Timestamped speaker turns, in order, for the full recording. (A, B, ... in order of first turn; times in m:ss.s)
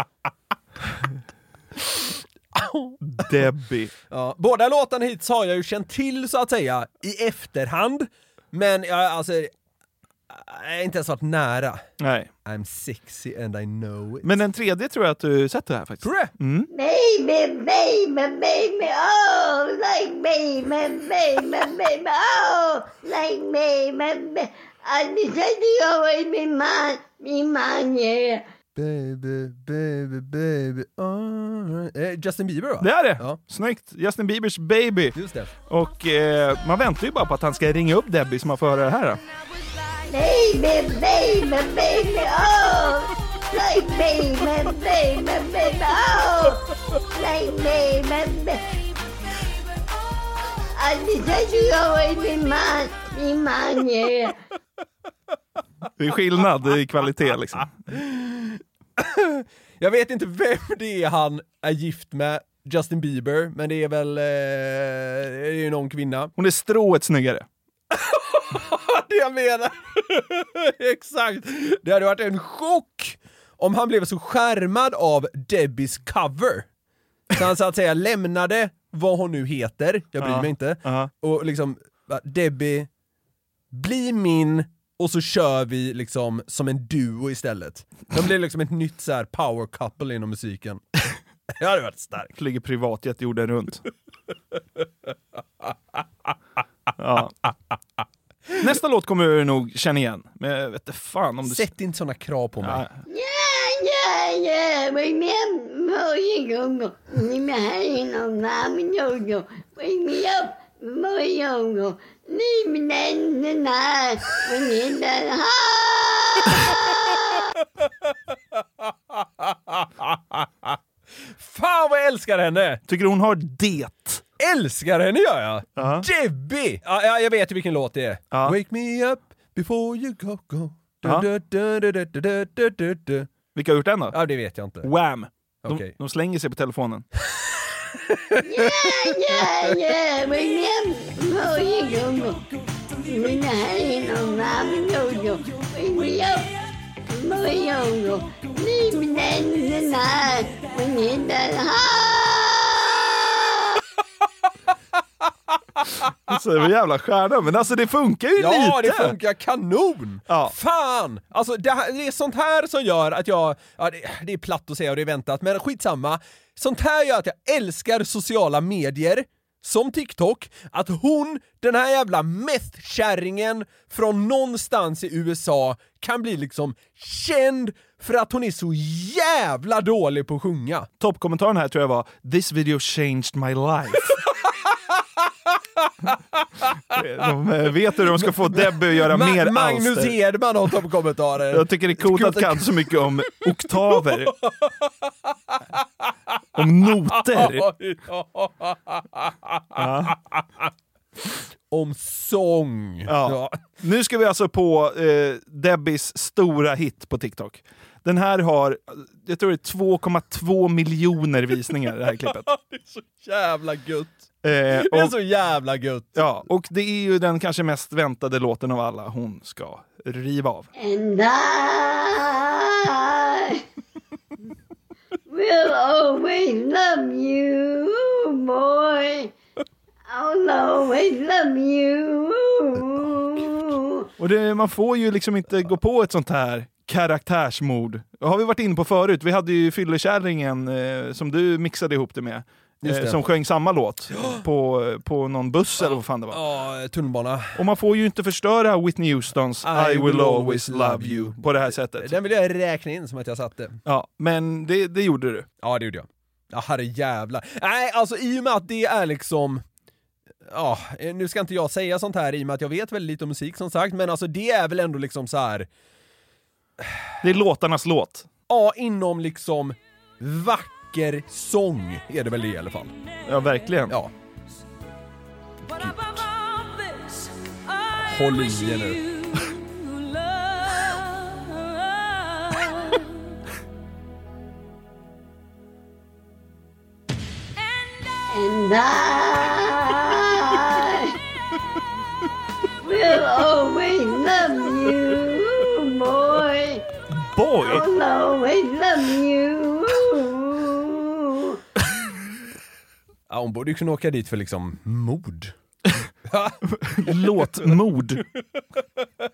0:02.5-0:03.2 A
0:03.0-0:03.9 B
0:04.1-0:09.5 A
0:10.3-0:11.8 A
0:12.0-0:12.3 B
0:12.4-0:14.3 A
0:14.2-0:16.7 B
0:16.0-0:16.3 A
0:16.7-0:28.4 C
0:28.7-0:33.4 A
0:32.8-0:35.2 B
0:35.1-0:35.5 A
0:35.7-0:39.2 B
0:40.1-0:46.6 C
0:47.2-0:48.6 C
0:50.7-0:54.3 C
0:56.0-0:57.8 B
0:57.9-1:06.3 A
1:06.4-1:07.4 B
1:07.9-1:16.7 A
1:17.3-1:22.9 A
1:20.2-1:21.1 B
1:23.7-1:30.8 A
1:31.6-1:32.3 A
1:32.4-1:33.8 B
1:37.0-1:37.4 B
1:38.6-1:41.7 B
1:41.4-1:42.8 A
1:42.6-1:42.9 B
1:43.1-1:56.6 C
1:59.1-2:00.8 A
2:01.4-2:02.8 A
2:02.9-2:04.2 B
2:04.4-2:13.3 A
2:05.8-2:06.0 B
2:13.5-2:14.2 B
2:14.1-2:14.9 A
2:14.8-2:17.0 B
2:15.6-2:15.9 A
2:18.1-2:19.8 A
2:18.4-2:22.4 C
2:23.0-2:26.5 C
2:27.1-2:33.6 C
2:36.3-2:39.1 B
2:38.4-3:00.9 A
2:40.3-2:40.5 B
3:01.0-3:04.2 B
3:06.9-3:10.2 B
3:08.1-3:13.0 A
3:11.5-3:14.4 B
3:14.4-3:14.8 A
3:16.6-3:17.7 B
3:17.1-3:20.4 A
3:19.8-3:20.2 B
3:21.7-3:23.6 A
3:23.1-3:32.5 B
3:31.9-3:36.2 A
3:34.4-3:35.1 B
3:36.2-3:40.7 B
3:40.8-3:43.6 C
3:45.3-3:49.3 C
3:50.1-3:54.1 C
3:54.2-4:06.4 B
4:02.8-4:03.2 A
4:04.1-4:04.4 A
4:05.8-4:07.6 A
4:07.6-4:12.2 B
4:09.6-4:13.8 A
4:13.8-4:15.5 B
4:15.6-4:19.6 A
4:20.5-4:25.7 A
4:27.2-4:28.3 B
4:28.5-4:32.9 A
4:33.2-4:34.0 B
4:35.7-4:36.2 A
4:38.0-4:39.0 A
4:48.3-4:51.1 C
4:52.8-4:56.8 C
4:57.1-4:57.8 B
4:57.6-5:01.6 C
5:03.3-5:05.5 A
5:06.3-5:07.7 A
5:06.7-5:08.2 B